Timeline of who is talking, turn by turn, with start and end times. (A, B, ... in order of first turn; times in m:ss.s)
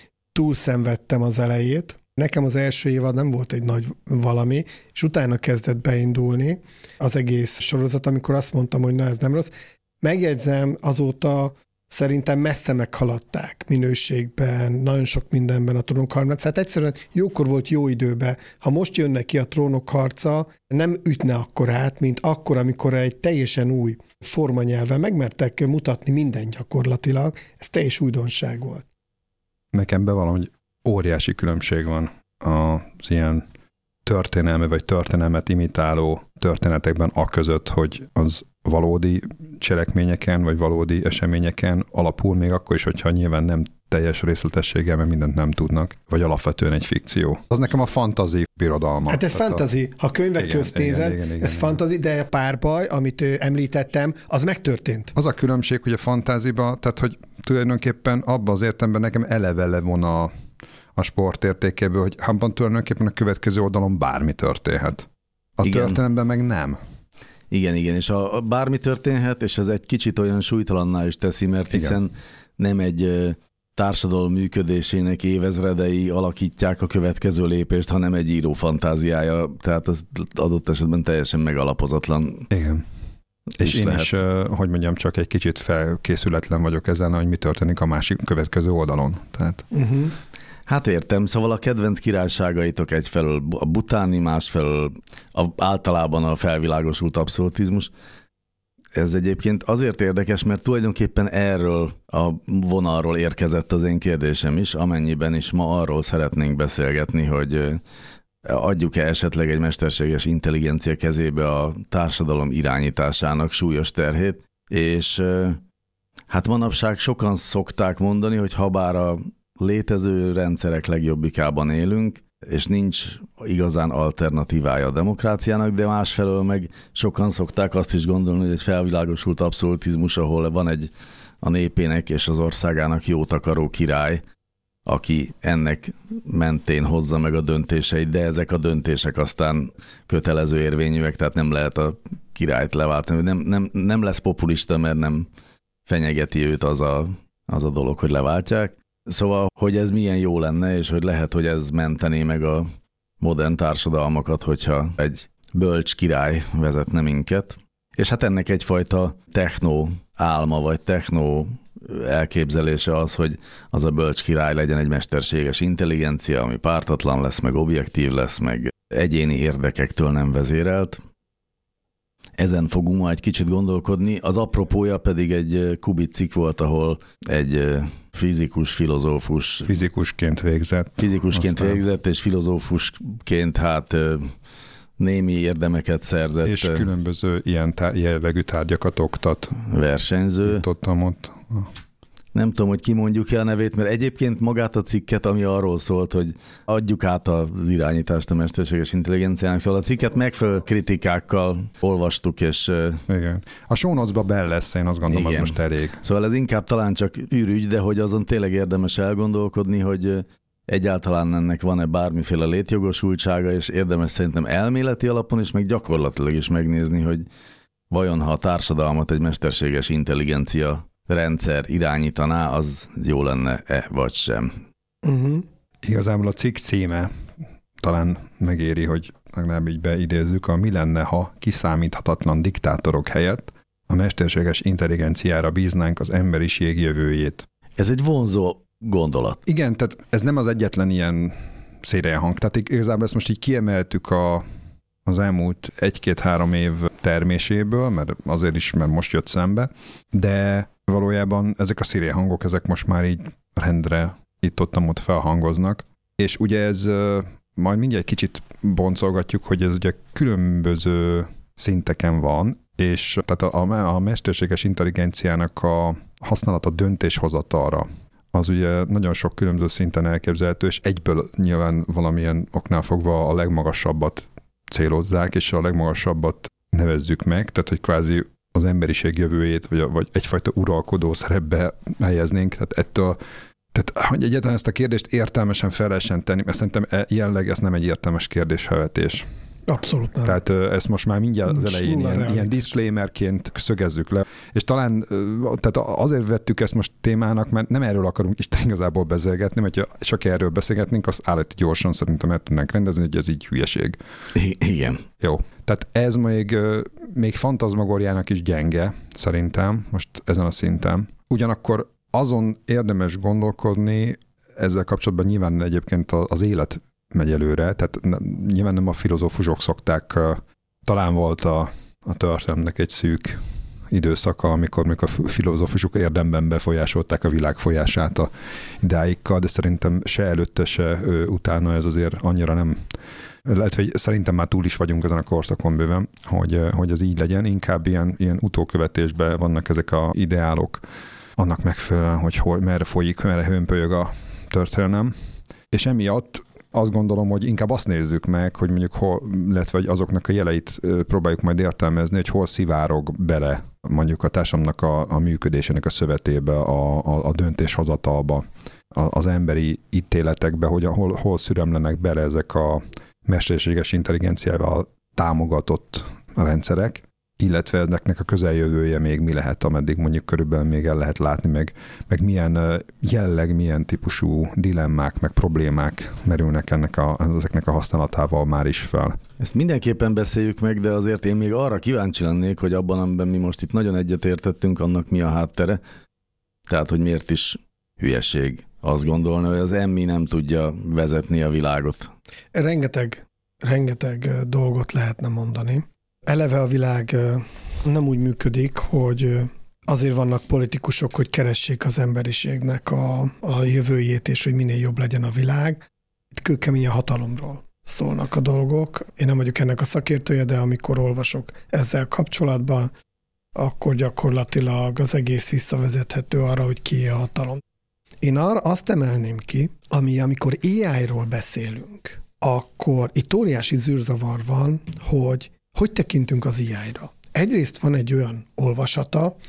0:00.3-0:28.9 A
0:29.7-0:33.4 B
0:34.0-0:49.7 B
0:49.1-0:55.1 A
0:50.4-0:51.8 B
0:55.2-1:00.3 B
1:01.0-1:05.1 B
1:05.6-1:06.8 B
1:05.6-1:06.0 C
1:07.5-1:22.5 C
1:11.7-1:12.0 B
1:22.5-1:22.8 B
1:23.6-1:24.1 C
1:23.6-1:29.7 B
1:29.7-1:30.1 A
1:30.7-1:37.9 C
1:38.9-1:47.8 C
1:48.4-1:55.6 C
1:56.3-2:10.9 C
2:11.4-2:14.2 C
2:14.9-2:25.3 C
2:25.9-2:32.7 C
2:33.2-2:51.0 C
2:52.4-2:59.7 C
2:59.7-3:01.8 B
3:01.0-3:04.3 C
3:05.0-3:06.9 C
3:06.4-3:09.6 B
3:09.7-3:10.6 C
3:10.4-3:11.7 B
3:12.4-3:23.0 C
3:23.1-3:26.0 B
3:25.1-3:37.2 C
3:37.9-3:44.6 C
3:45.0-3:45.4 A
3:45.8-3:47.1 B
3:47.8-3:57.5 B
3:57.8-3:59.4 C
3:59.5-4:04.5 B
4:05.1-4:43.2 B
4:43.7-4:49.3 B
4:49.7-4:50.4 A
4:50.2-5:04.0 B
4:51.5-4:52.8 A
5:04.4-5:05.0 C
5:05.2-5:32.9 B
5:33.4-5:40.8 B
5:41.4-5:45.2 B
5:45.7-6:19.2 B
6:19.4-6:25.8 C
6:26.7-6:32.1 C
6:32.5-6:52.9 A
6:53.6-6:57.6 A
6:58.2-7:09.4 A